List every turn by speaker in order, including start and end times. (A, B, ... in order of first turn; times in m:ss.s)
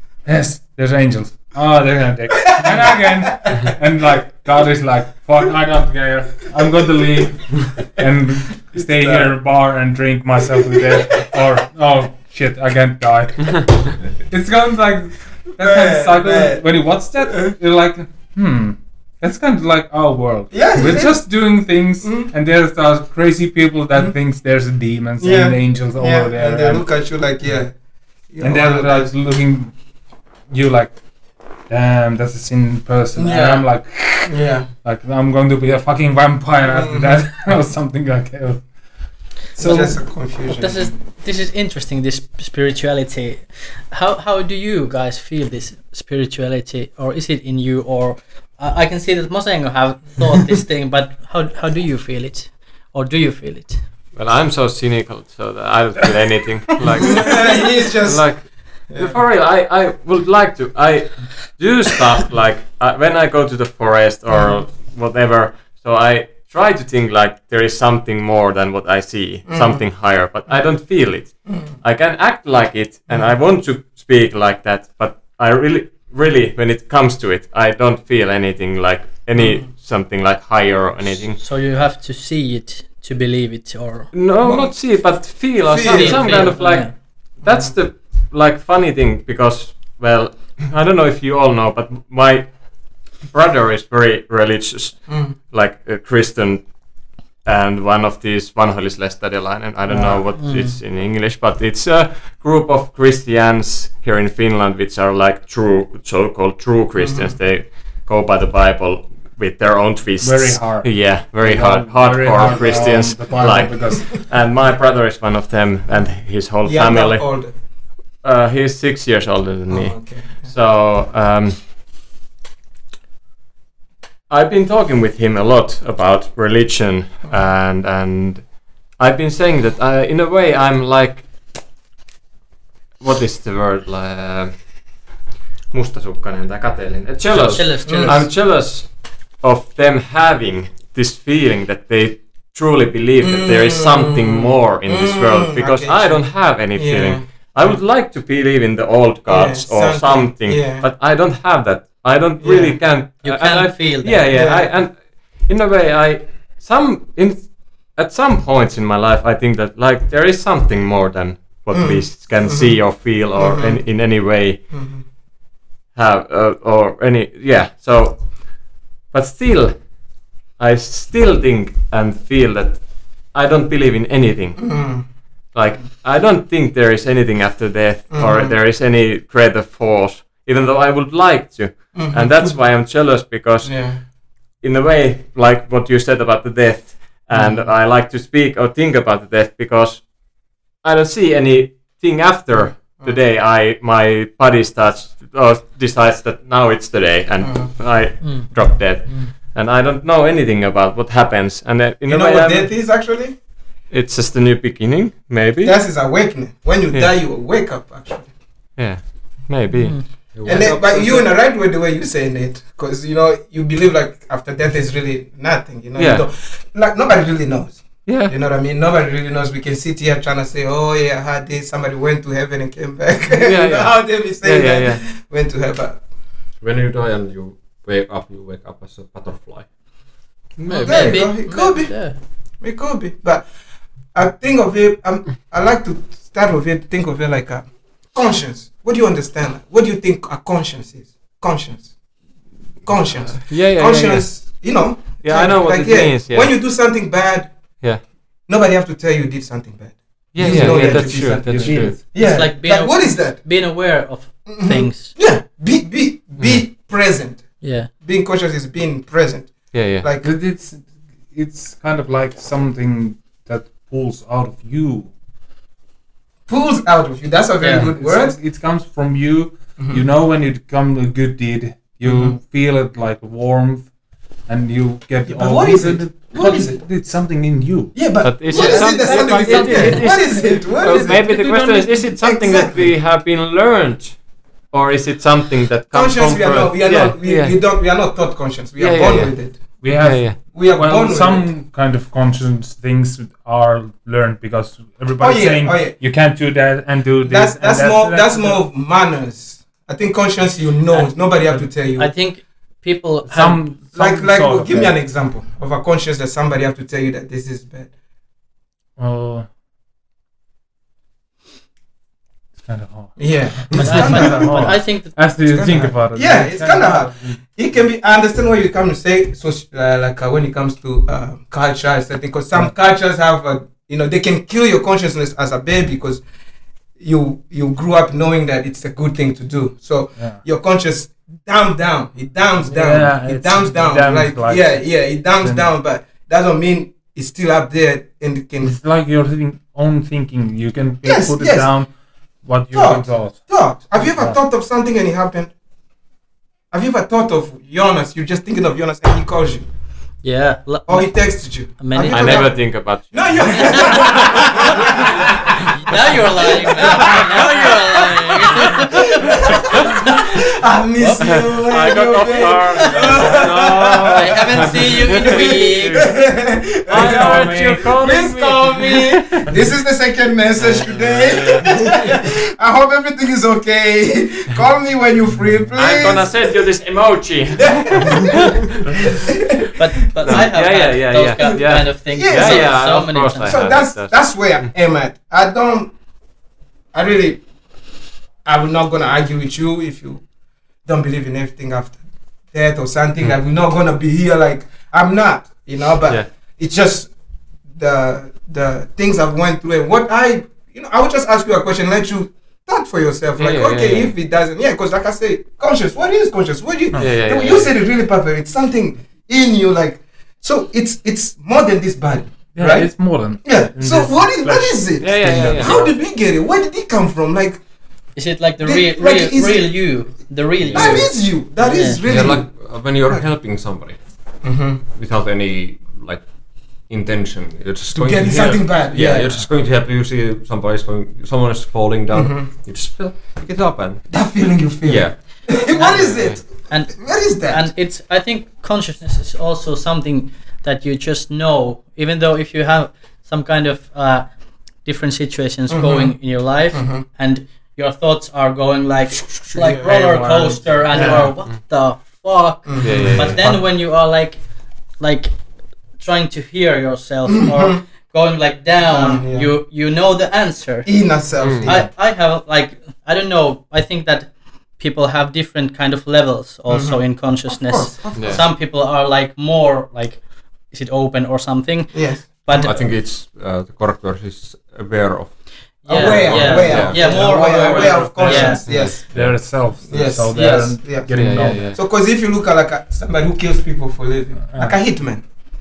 0:00.2-0:26.8 A
0:02.4-0:03.7 B
0:08.7-0:09.3 B
0:10.9-0:11.2 B
0:15.6-0:16.6 B
0:17.2-0:17.5 B
0:20.5-0:21.3 B
0:22.0-0:22.3 B
0:25.2-0:27.7 B
0:28.3-0:29.1 B
0:28.4-0:29.8 A
0:30.5-0:31.0 A
0:31.7-0:38.7 A
0:33.2-0:34.7 B
0:36.6-0:37.2 B
0:39.6-0:40.0 A
0:39.6-0:40.9 B
0:40.5-0:53.8 C
0:54.1-1:21.4 D
0:57.0-0:59.2 B
1:04.3-1:04.5 B
1:09.5-1:09.8 B
1:11.4-1:11.7 B
1:19.3-1:19.6 B
1:21.4-1:24.1 C
1:24.1-2:01.6 D
1:24.4-1:26.8 B
1:25.8-1:26.9 C
1:27.4-1:27.7 B
1:35.1-1:35.3 B
1:39.9-1:40.3 A
1:40.4-1:40.8 C
1:47.0-1:47.3 B
1:50.2-1:54.1 A
1:52.4-1:53.4 B
1:56.6-1:57.6 B
1:59.7-2:00.5 B
2:04.3-2:11.3 D
2:13.0-2:15.1 D
2:15.7-2:44.6 D
2:17.5-2:18.3 C
2:17.6-2:18.3 B
2:23.2-2:27.7 B
2:29.3-2:30.8 B
2:32.4-2:32.8 B
2:33.0-2:34.3 C
2:34.3-2:34.8 B
2:41.7-2:45.0 B
2:45.9-3:23.1 D
2:54.6-2:55.1 B
2:58.1-2:58.5 B
3:01.9-3:02.6 B
3:03.6-3:04.0 B
3:17.4-3:17.7 B
3:22.1-3:23.4 B
3:23.9-3:26.3 D
3:25.6-3:28.3 B
3:28.8-3:30.7 D
3:29.8-3:30.0 C
3:30.3-3:31.3 E
3:30.4-3:46.0 B
3:36.0-3:36.2 D
3:38.0-3:38.3 D
3:43.3-3:45.0 D
3:46.6-3:50.0 E
3:50.6-3:51.3 D
3:50.6-3:52.2 C
3:50.7-3:53.5 B
3:54.1-4:01.9 B
4:02.8-4:13.5 B
4:03.2-4:04.6 D
4:05.2-4:06.7 D
4:07.8-4:08.1 D
4:10.3-4:12.0 D
4:10.4-4:12.0 A
4:12.1-4:15.2 C
4:14.4-4:20.2 B
4:17.6-4:17.9 C
4:19.7-4:20.1 D
4:20.2-4:25.1 A
4:26.5-4:28.4 B
4:27.6-4:27.9 C
4:27.9-4:33.9 A
4:29.8-4:30.0 B
4:32.0-4:32.4 B
4:34.4-4:40.1 A
4:35.2-4:36.8 B
4:37.9-4:41.2 B
4:38.2-4:47.8 D
4:38.6-4:38.8 C
4:41.2-4:42.0 A
4:42.1-4:42.9 B
4:45.9-4:49.8 B
4:48.8-4:50.4 D
4:49.8-4:58.6 A
4:50.4-4:51.5 B
4:55.2-4:56.0 B
4:57.2-5:02.1 B
5:00.9-5:03.6 C
5:03.2-5:05.0 A
5:03.9-5:07.9 B
5:09.0-5:09.5 A
5:12.6-5:17.4 A
5:13.2-5:26.2 B
5:13.7-5:15.2 C
5:27.0-5:38.8 B
5:30.2-5:30.4 A
5:32.6-5:35.7 A
5:38.6-5:44.4 A
5:41.0-5:41.8 B
5:42.7-5:45.5 B
5:46.7-5:49.6 B
5:50.2-5:52.6 C
5:50.9-5:54.9 B
5:52.1-5:56.0 D
5:53.4-5:54.4 C
5:55.8-6:00.2 C
5:55.9-5:57.3 B
5:56.6-5:58.8 D
5:59.3-5:59.8 B
6:00.6-6:16.5 B
6:01.0-6:01.6 C
6:01.3-6:06.2 D
6:02.7-6:03.3 C
6:04.1-6:06.0 C
6:06.9-6:09.6 D
6:07.0-6:07.9 A
6:10.6-6:11.9 D
6:15.3-6:15.8 A
6:15.7-6:18.7 D
6:17.6-6:18.7 B
6:19.5-6:20.5 B
6:19.8-6:23.8 C
6:20.2-6:24.7 D
6:22.1-6:22.8 B
6:23.4-6:25.9 B
6:26.9-6:27.4 B
6:28.4-6:30.2 B
6:30.8-6:37.1 B
6:37.7-6:57.6 B
6:43.4-6:44.1 D
6:47.0-6:47.7 D
6:52.5-6:55.9 A
6:55.0-6:55.9 D
6:58.1-7:02.4 C
6:58.6-7:00.1 B
7:00.7-7:01.1 E
7:00.7-7:03.2 B
7:02.0-7:14.2 E
7:04.4-7:04.8 B
7:07.9-7:09.3 B
7:12.1-7:12.5 B
7:14.1-7:17.7 B
7:14.8-7:15.8 E
7:15.7-7:16.4 D
7:15.8-7:52.8 C
7:25.7-7:27.0 B
7:29.5-7:31.4 A
7:29.5-7:29.8 B
7:30.9-7:31.3 B
7:32.6-7:33.4 B
7:32.8-7:33.5 D
7:37.5-7:37.8 B
7:38.8-7:39.5 B
7:40.8-7:41.9 B
7:41.4-7:41.7 D
7:46.7-7:48.4 B
7:48.1-7:48.4 D
7:51.9-7:52.7 B
7:52.5-7:57.3 E
7:55.8-7:58.9 C
7:55.9-8:05.2 B
7:56.4-8:01.7 A
7:58.6-7:59.3 D
7:59.1-7:59.4 E
8:00.4-8:01.8 D
8:04.5-8:04.8 A